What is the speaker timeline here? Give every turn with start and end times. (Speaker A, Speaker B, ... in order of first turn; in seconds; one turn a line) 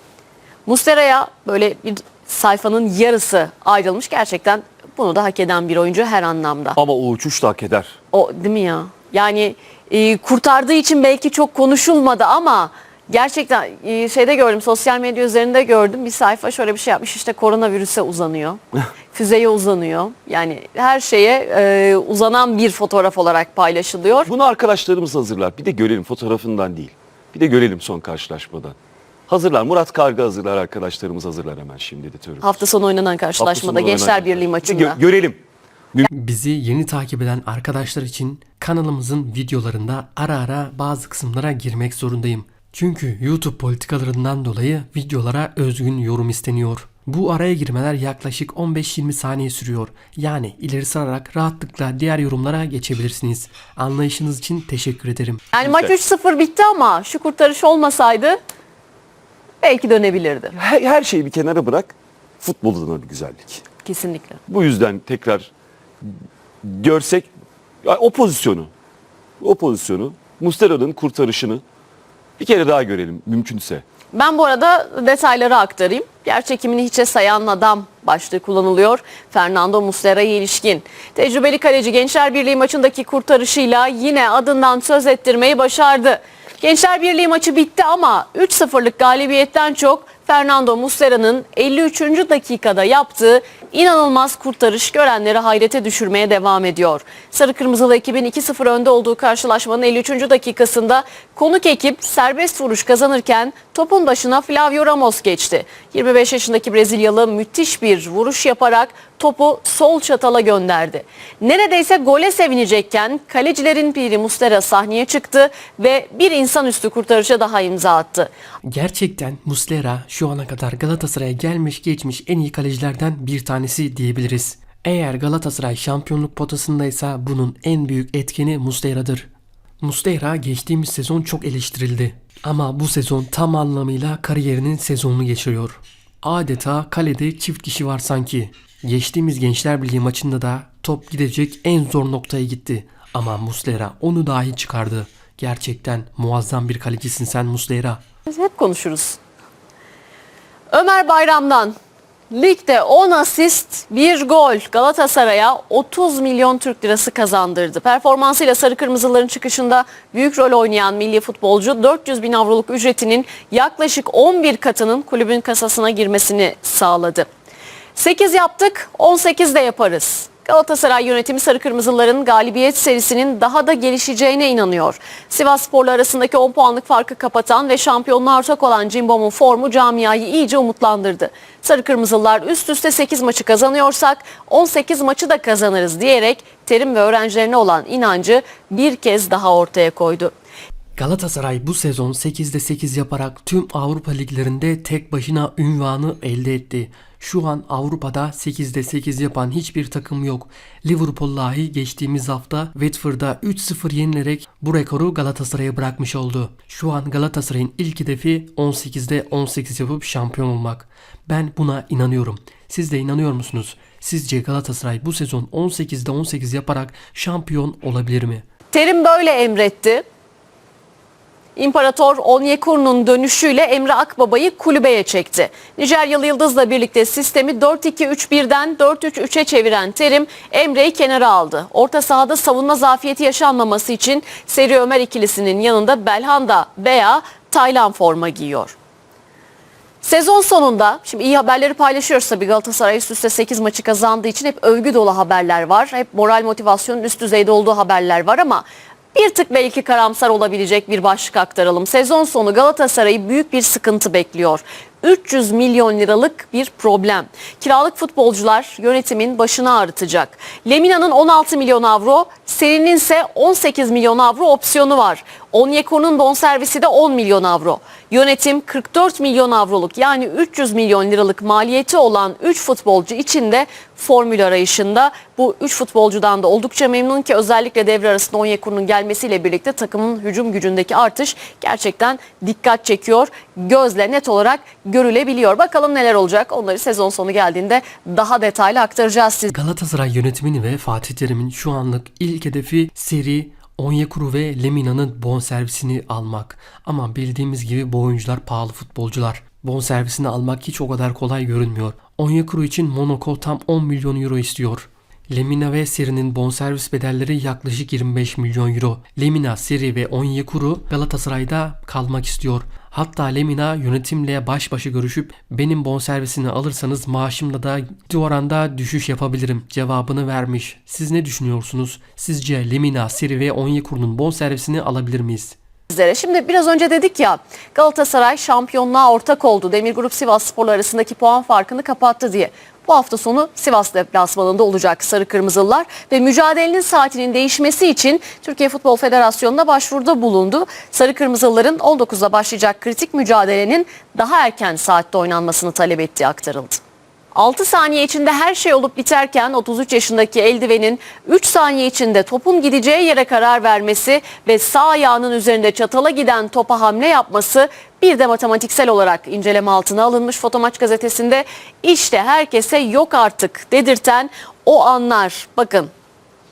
Speaker A: 0.7-6.8
Speaker B: 6.8-7.9
Speaker A: 8.1-18.6
Speaker A: 19.1-24.3
Speaker B: 24.3-28.8
Speaker B: 29.3-32.6
Speaker A: 32.4-35.0
Speaker B: 33.4-35.4
Speaker C: 36.1-55.5
Speaker A: 55.5-58.4
Speaker B: 55.6-55.9
Speaker A: 59.6-60.5
Speaker B: 60.5-63.6
Speaker A: 63.8-64.4
Speaker B: 64.5-65.5
Speaker B: 66.6-67.3
Speaker B: 67.8-68.7
Speaker B: 69.4-71.6
Speaker B: 72.4-73.8
Speaker A: 74.1-118.3
Speaker C: 118.7-129.3
Speaker C: 129.8-148.0
Speaker A: 148.3-149.2
Speaker A: 150.7-151.8
Speaker A: 152.3-167.3
Speaker A: 167.9-190.3
Speaker C: 191.0-218.4
Speaker A: 218.7-220.0
Speaker A: 221.6-238.8
Speaker A: 240.0-289.5
Speaker C: 289.5-325.6
Speaker A: 325.9-346.8
Speaker A: 347.3-365.9